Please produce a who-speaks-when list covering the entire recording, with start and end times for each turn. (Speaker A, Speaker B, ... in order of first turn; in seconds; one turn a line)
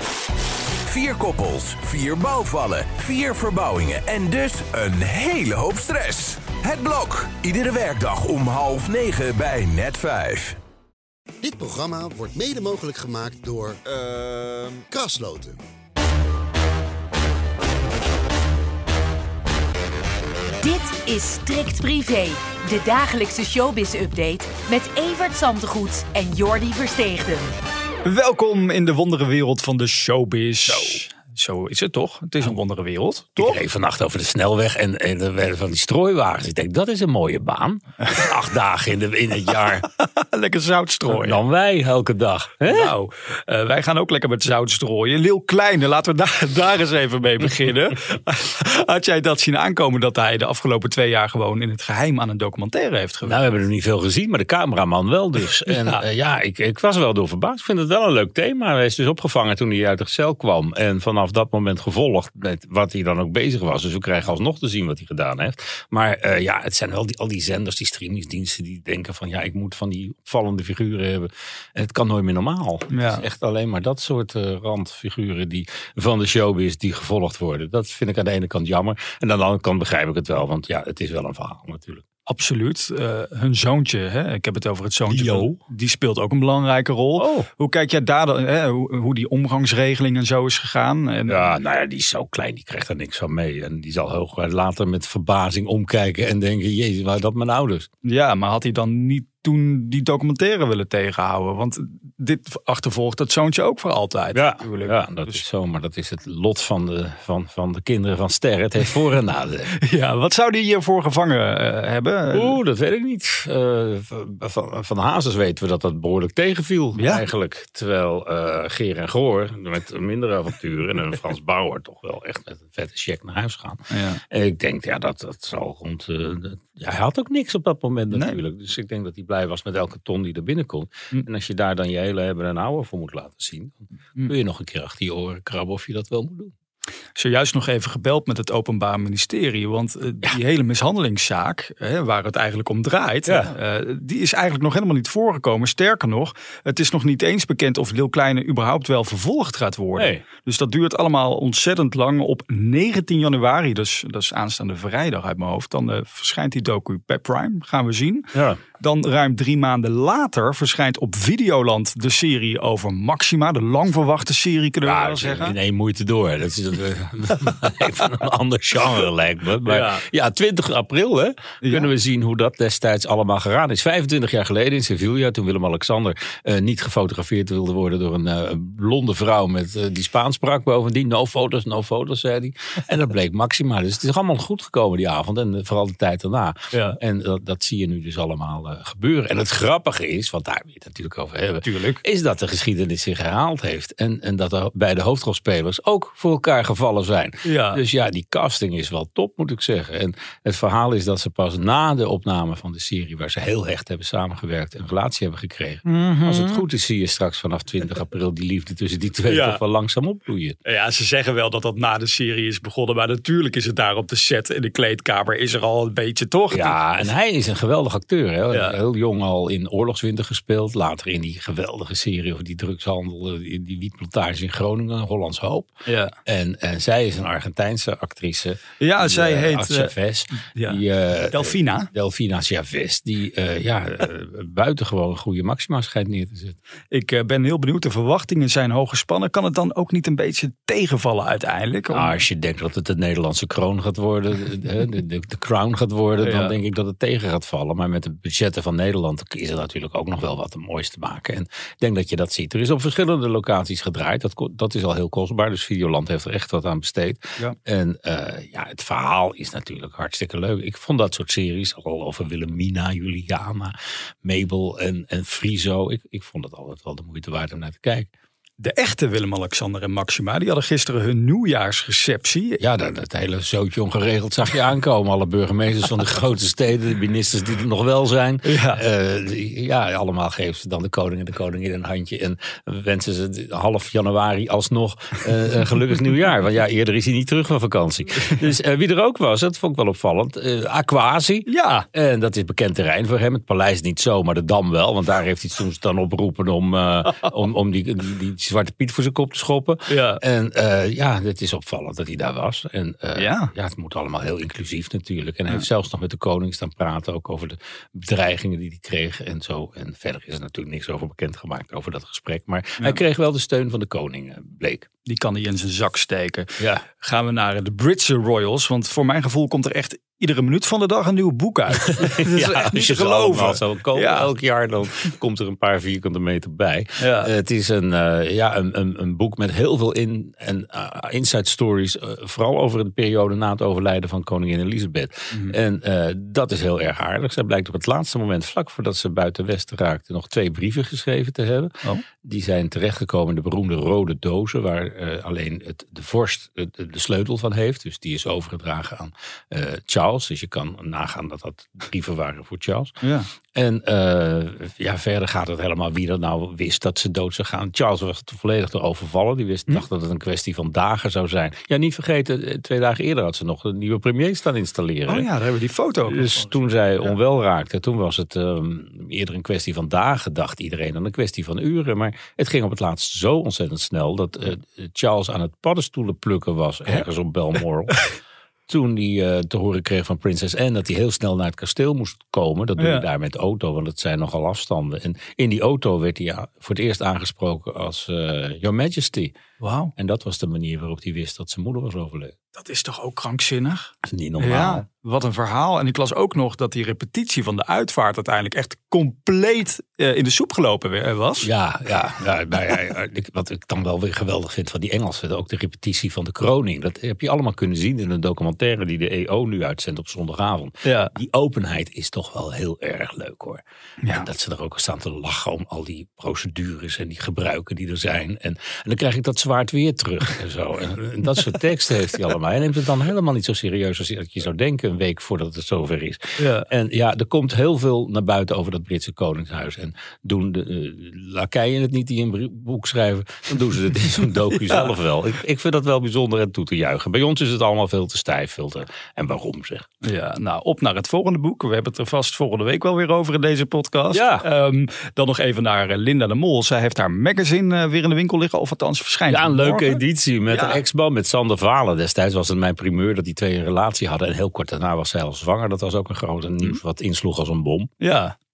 Speaker A: 0.8-10.6
Speaker B: 11.4-13.8
Speaker A: 13.9-14.8
Speaker B: 14.9-15.6
Speaker C: 20.6-27.5
Speaker D: 28.0-33.6
Speaker E: 30.7-31.0
Speaker E: 33.4-39.9
Speaker D: 39.8-41.4
Speaker E: 41.1-42.9
Speaker D: 42.7-53.6
Speaker E: 53.2-82.0
Speaker D: 55.7-56.0
Speaker D: 72.9-73.3
Speaker D: 82.2-91.5
Speaker E: 85.0-85.5
Speaker E: 87.2-87.5
Speaker E: 91.3-97.9
Speaker D: 98.0-105.4
Speaker E: 104.3-109.7
Speaker D: 109.8-112.6
Speaker E: 112.3-136.5
Speaker D: 116.9-117.2
Speaker D: 123.9-124.2
Speaker D: 128.1-128.4
Speaker D: 137.1-165.6
Speaker E: 149.9-150.2
Speaker E: 158.3-158.6
Speaker E: 164.8-210.6
Speaker D: 169.6-170.0
Speaker D: 171.6-171.9
Speaker D: 186.7-187.0
Speaker D: 191.6-192.0
Speaker D: 197.4-197.8
Speaker D: 206.0-206.5
Speaker D: 209.2-209.6
Speaker D: 210.6-217.1
Speaker E: 216.5-225.7
Speaker D: 218.5-218.8
Speaker D: 225.8-226.2
Speaker E: 226.2-236.6
Speaker D: 228.8-231.9
Speaker D: 236.9-242.2
Speaker E: 241.9-268.1
Speaker D: 246.2-246.6
Speaker D: 268.6-272.6
Speaker E: 272.6-314.9
Speaker D: 278.4-278.8
Speaker D: 291.4-291.9
Speaker D: 299.9-300.2
Speaker D: 303.1-303.5
Speaker D: 315.0-324.3
Speaker E: 316.6-316.8
Speaker E: 321.9-352.9
Speaker D: 327.0-327.3
Speaker D: 353.0-353.3
Speaker E: 353.5-365.3
Speaker D: 365.1-367.1
Speaker E: 366.1-378.1
Speaker E: 378.7-389.4
Speaker D: 382.8-383.1
Speaker D: 389.6-389.9
Speaker E: 390.0-392.3
Speaker D: 392.5-401.5
Speaker E: 394.0-394.8
Speaker E: 401.4-439.9
Speaker D: 410.8-411.1
Speaker D: 414.0-414.3
Speaker D: 426.4-426.7
Speaker D: 434.6-434.9
Speaker D: 440.0-450.8
Speaker E: 444.1-444.4
Speaker E: 449.3-457.9
Speaker D: 458.0-458.3